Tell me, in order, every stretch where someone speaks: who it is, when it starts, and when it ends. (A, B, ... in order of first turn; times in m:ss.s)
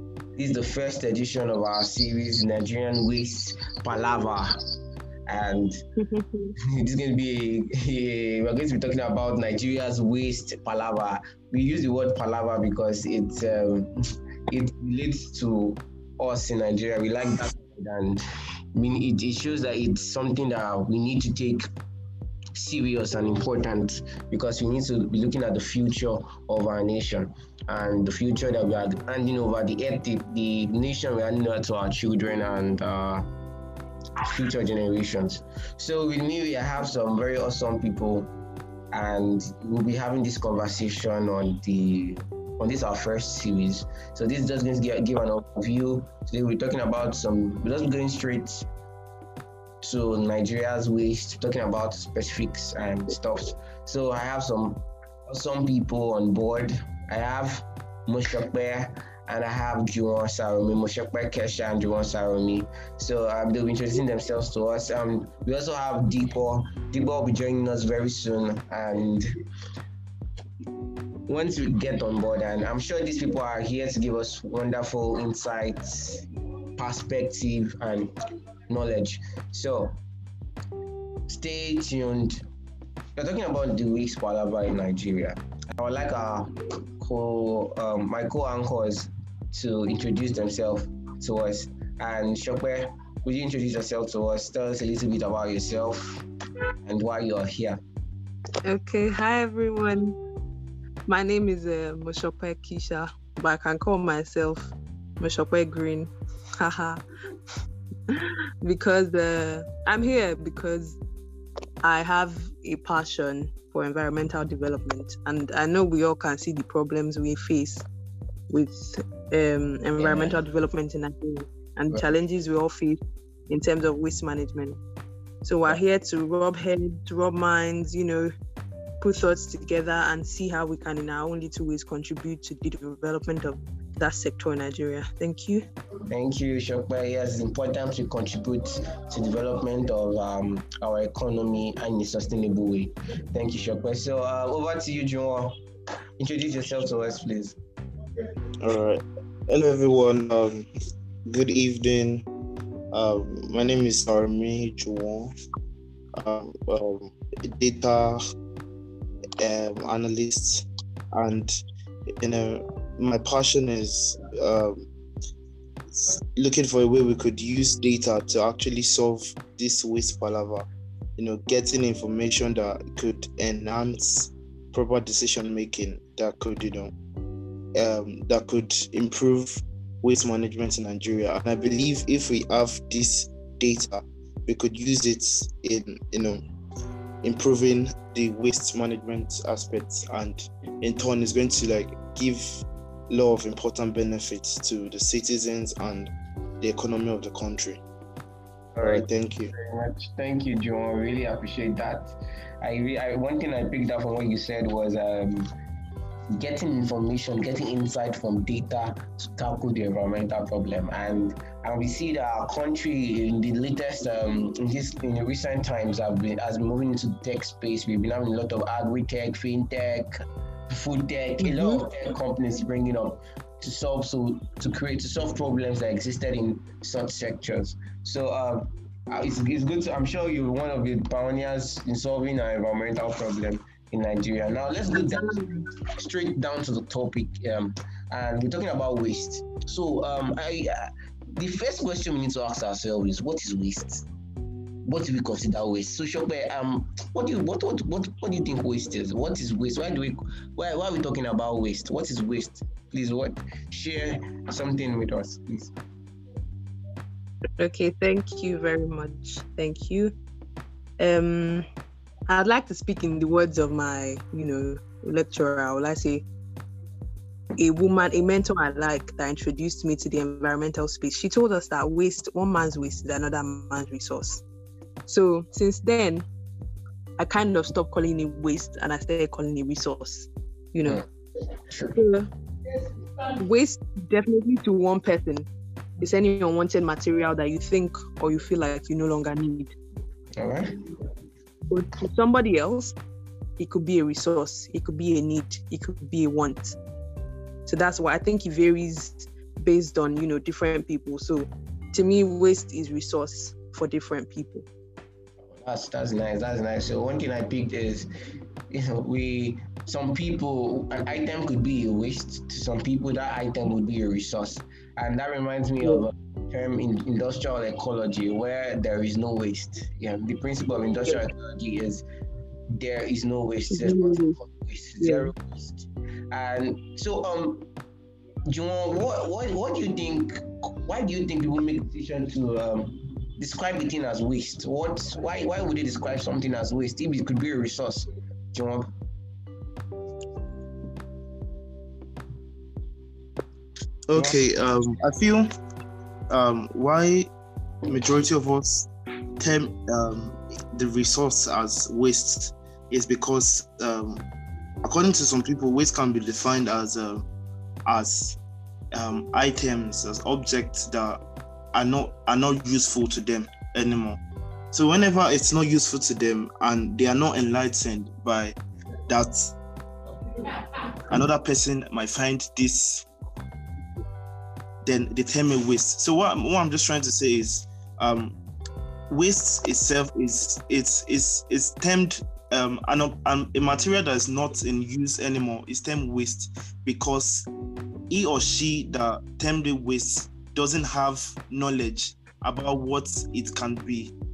0:00.4-0:04.5 A
0:05.3-0:05.8 A
0:06.1-0:06.5 B
0:06.6-0:13.9 A
0:14.5-0:18.2 A
0:18.8-0:21.7 A
0:22.6-0:33.3 A
0:34.2-0:38.3 A
0:38.9-0:48.7 A
0:49.8-1:09.3 A
1:11.3-1:16.2 A
1:16.8-1:18.1 A
1:18.7-1:20.0 A
1:21.3-1:22.4 A
1:23.2-1:36.2 A
1:36.8-1:37.8 A
1:38.6-1:40.2 B
1:41.1-1:47.0 B
1:48.1-1:51.0 B
1:51.8-1:57.8 B
1:58.5-2:03.0 B
2:00.0-2:00.4 A
2:03.5-2:04.8 B
2:05.4-2:08.3 B
2:09.0-2:15.7 B
2:16.1-2:25.6 A
2:26.2-2:27.6 A
2:28.6-2:30.7 C
2:31.3-2:32.3 C
2:32.9-2:35.3 C
2:36.2-2:38.2 C
2:39.4-2:41.5 C
2:42.2-2:44.9 C
2:45.9-2:50.7 C
2:51.2-2:56.9 C
2:57.8-3:06.4 C
3:07.2-3:17.8 C
3:18.8-3:25.5 A
3:18.8-3:19.5 C
3:26.3-3:40.2 A
3:40.7-3:55.3 A
3:41.4-3:41.9 B
3:54.9-3:55.7 B
3:56.0-4:04.0 A
4:04.9-4:15.7 A
4:17.6-4:20.2 B
4:21.0-4:21.7 B
4:22.3-4:26.2 B
4:27.6-4:34.4 B
4:35.1-4:36.3 B
4:37.2-4:41.0 B
4:41.7-4:42.0 A
4:42.0-4:42.3 B
4:43.4-4:45.5 B
4:46.0-4:49.7 B
4:50.4-4:50.8 A
4:51.7-4:53.0 B
4:53.6-4:56.8 B
4:57.7-5:04.7 B
5:05.6-5:08.1 A
5:08.7-5:22.0 A
5:22.7-5:27.7 A
5:23.7-5:24.4 B
5:25.0-5:25.3 B
5:28.5-5:38.9 A
5:44.1-5:45.5 C
5:44.1-5:44.4 A
5:46.3-5:47.3 C
5:47.8-5:48.9 C
5:49.4-5:54.2 C
5:54.8-5:57.3 C
5:57.9-5:58.4 C
5:58.9-6:01.2 C
6:01.7-6:04.2 C
6:04.7-6:09.5 C
6:11.1-6:13.1 C
6:14.8-6:18.4 C
6:19.1-6:27.5 C
6:28.1-6:34.1 C